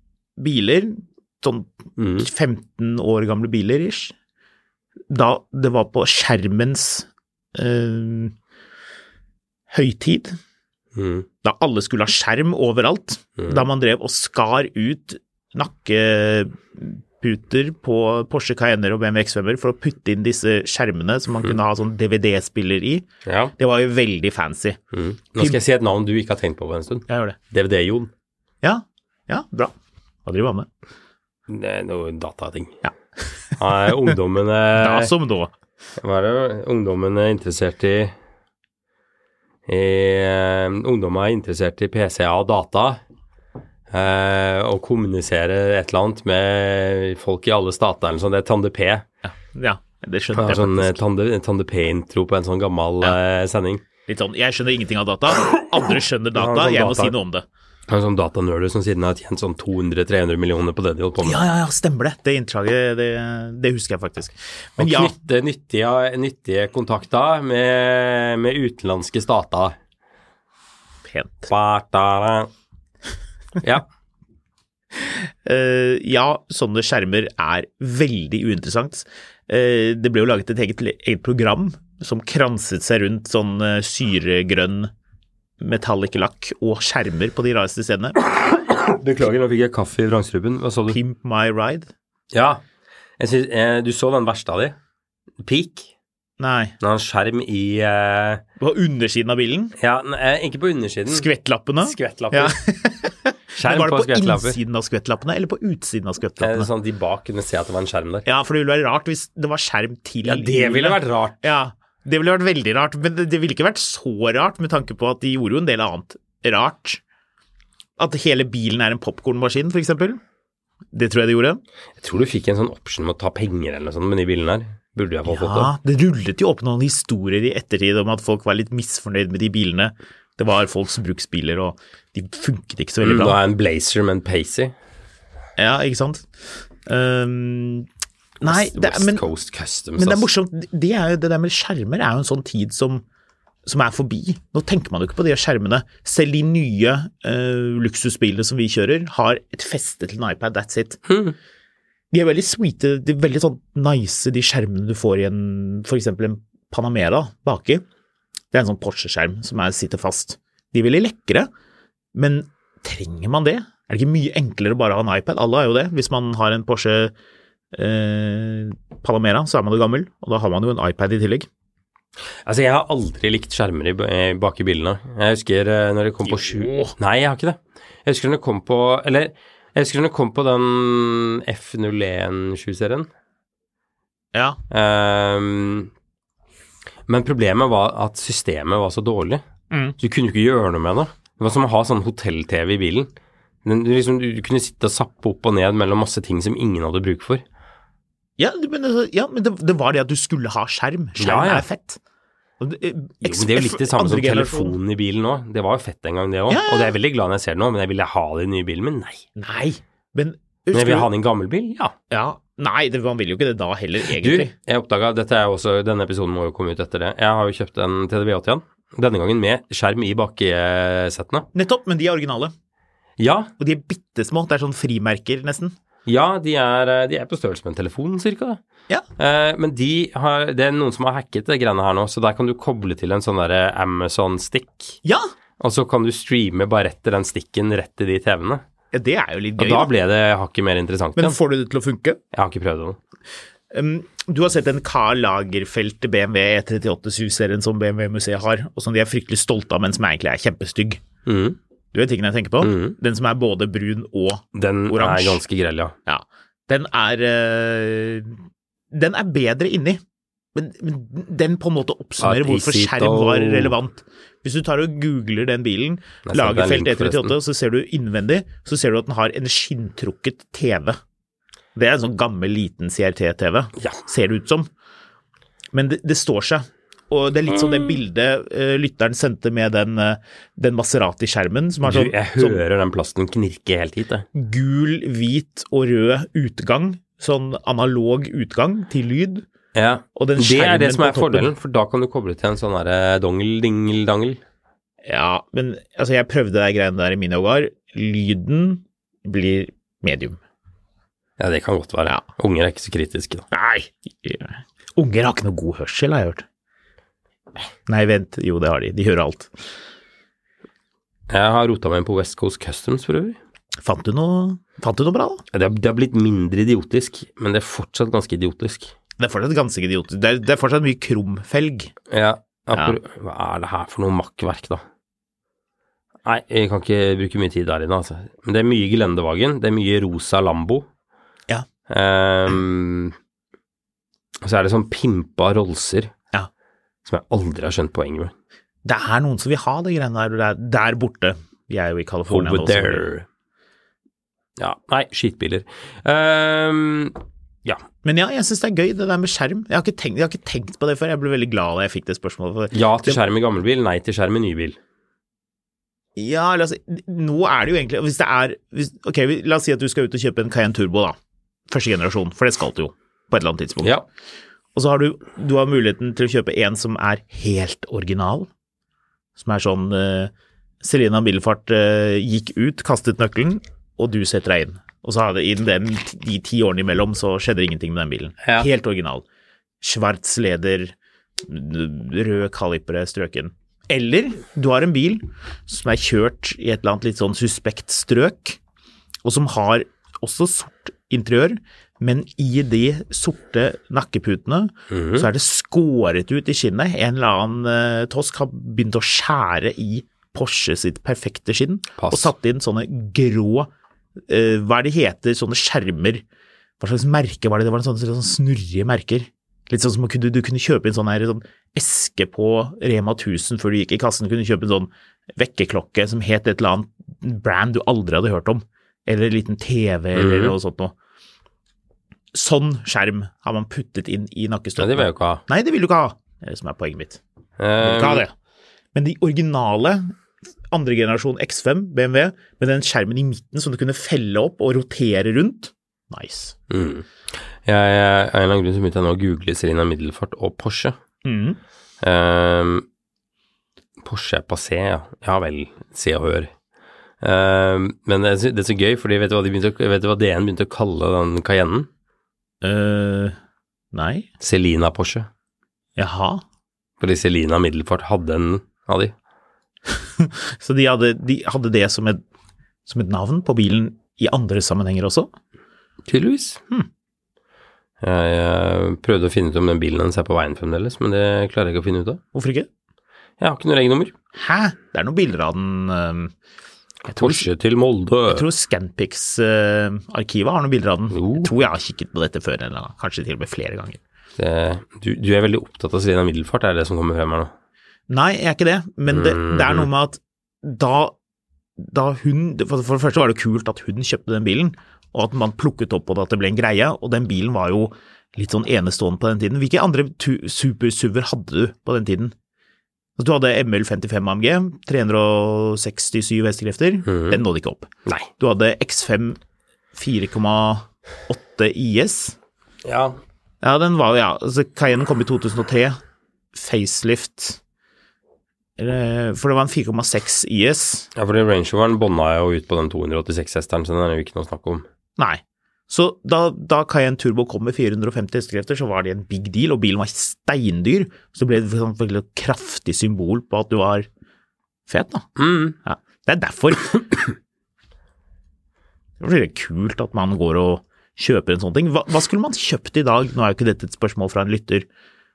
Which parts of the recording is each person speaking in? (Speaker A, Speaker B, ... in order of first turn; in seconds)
Speaker A: 0.4-4.1, 5.1-8.3, 9.7-10.4, 11.4-23.1, 23.6-24.8, 27.1-27.4, 28.6-29.7, 30.2-30.7, 34.8-35.5, 49.2-51.0, 54.1-57.5, 61.2-65.1, 71.0-71.5, 74.9-84.9, 85.6-88.2, 90.9-91.9, 96.4-96.8, 98.6-99.7, 101.1-106.7, 108.2-117.0, 118.0-120.2, 120.9-121.6, 125.2-133.4, 135.6-136.3, 136.8-137.9, 138.4-139.2, 140.0-143.0, 143.6-151.0, 152.1-157.8, 158.5-161.5, 162.1-167.1, 167.7-171.5, 176.2-176.9, 184.3-184.6, 189.7-190.0, 198.4-202.0, 202.6-204.8, 206.5-206.9, 209.4-211.1, 212.1-214.5, 221.5-222.5, 223.6-225.7, 235.0-235.3, 238.9-239.9, 241.2-242.2, 243.7-251.0, 251.9-255.4, 256.1-258.4, 258.9-260.0, 260.5-271.0, 271.7-274.7, 275.7-282.6, 284.3-289.4, 290.1-291.5, 295.0-300.4, 303.5-306.4, 307.9-309.5, 313.8-315.4, 319.2-321.9, 338.8-343.1, 348.0-353.2, 356.1-361.2, 361.7-363.9, 364.7-368.5, 369.4-379.2, 379.8-388.6, 389.2-403.7, 404.3-406.2, 406.8-420.9, 422.3-427.2, 427.8-428.3, 428.9-430.1, 430.7-436.6, 441.2-441.6, 452.6-453.3, 453.9-454.3, 456.0-456.4, 459.9-462.2, 462.9-465.3, 472.3-472.7, 474.3-476.3, 477.0-477.5, 478.3-484.0, 488.1-491.1, 491.8-502.3, 503.2-509.4, 509.9-512.4, 513.6-516.0, 516.5-517.6, 518.8-521.1, 525.2-534.1, 534.9-535.3, 535.8-537.2, 539.2-544.9
Speaker B: 2.0-2.3, 10.9-11.3, 13.4-13.7, 23.2-23.5, 24.9-28.1, 31.5-32.8, 33.6-35.1, 36.0-38.1, 39.7-43.0, 43.9-49.0, 50.3-53.8, 56.3-57.1, 57.9-61.5, 64.8-69.8, 71.5-72.5, 73.6-73.8, 88.2-91.0, 92.3-92.6, 93.2-94.8, 95.4-95.9, 96.8-98.4, 99.8-101.3, 101.8-102.6, 103.6-104.6, 106.4-108.2, 110.2-111.4, 122.0-125.7, 133.0-134.7, 138.4-140.3, 151.1-151.3, 172.4-183.1, 184.7-185.9, 187.1-189.4, 190.0-193.1, 193.6-197.4, 201.2-201.7, 203.2-209.2, 210.7-211.9, 214.1-221.5, 223.2-223.5, 226.1-228.6, 229.2-235.0, 235.6-238.6, 239.6-241.4, 242.3-243.0, 251.2-251.6, 252.6-252.9, 254.5-255.9, 262.2-263.7, 266.3-267.3, 277.7-278.0, 281.8-284.2, 289.7-294.4, 301.4-303.4, 311.3-313.4, 315.5-318.9, 322.1-324.8, 326.2-330.9, 331.9-333.1, 334.4-336.1, 337.1-338.3, 342.3-343.2, 344.6-347.8, 352.7-354.8, 378.4-378.7, 394.9-395.3, 402.0-402.3, 420.1-420.5, 424.8-425.4, 427.6-428.2, 436.7-437.1, 437.6-440.9, 442.0-442.8, 444.0-446.5, 447.2-451.9, 454.4-455.3, 457.0-459.1, 466.1-466.6, 468.0-472.2, 473.4-474.1, 477.1-478.5, 481.1-481.5, 484.4-487.5, 489.1-489.9, 507.1-507.4, 512.8-513.2, 521.1-524.9, 535.4-535.8